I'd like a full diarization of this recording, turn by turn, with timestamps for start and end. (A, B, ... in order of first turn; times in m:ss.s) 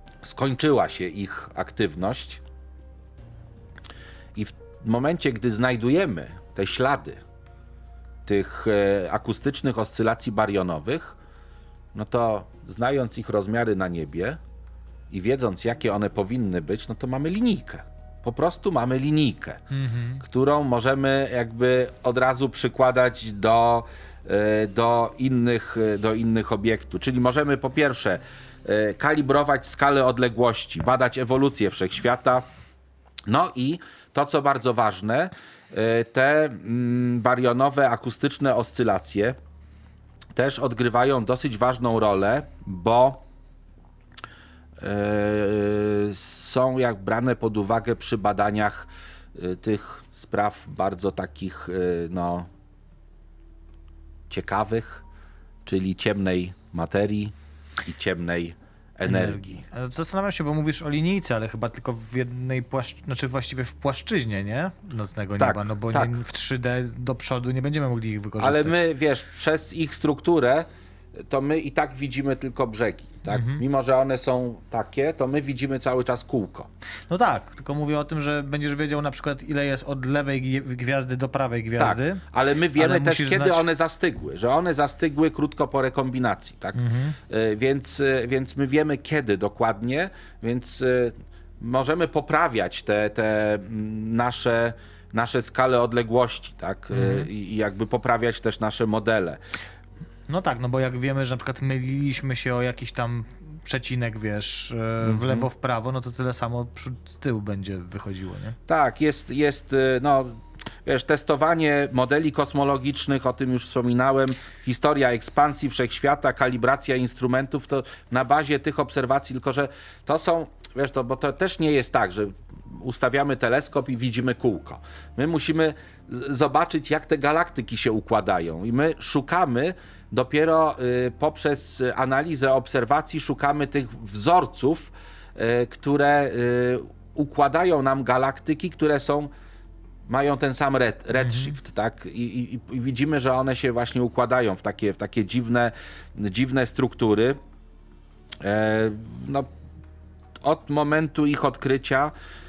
0:00.2-0:02.4 A
0:04.4-0:07.2 A
0:08.2-0:11.2 A
0:11.9-0:14.4 A
0:15.1-0:19.6 A
0:19.7-0:20.2 B
0:20.2-0:32.4 A
0:33.3-0:39.4 A
0:40.4-0:43.2 A
0:44.8-0:52.5 A
0:54.3-0:55.0 A
0:55.6-0:59.6 A
0:59.1-1:08.8 B
1:05.4-1:06.2 A
1:08.4-1:10.7 A
1:11.3-1:16.7 A
1:13.3-1:13.6 B
1:17.1-1:22.2 B
1:21.8-1:39.4 A
1:22.8-1:23.6 B
1:26.8-1:27.2 B
1:36.9-1:37.3 B
1:40.3-1:48.6 B
1:45.0-1:45.5 A
1:48.7-2:19.3 A
2:20.1-2:27.4 A
2:21.2-2:21.6 B
2:28.4-2:29.5 A
2:30.4-2:32.1 A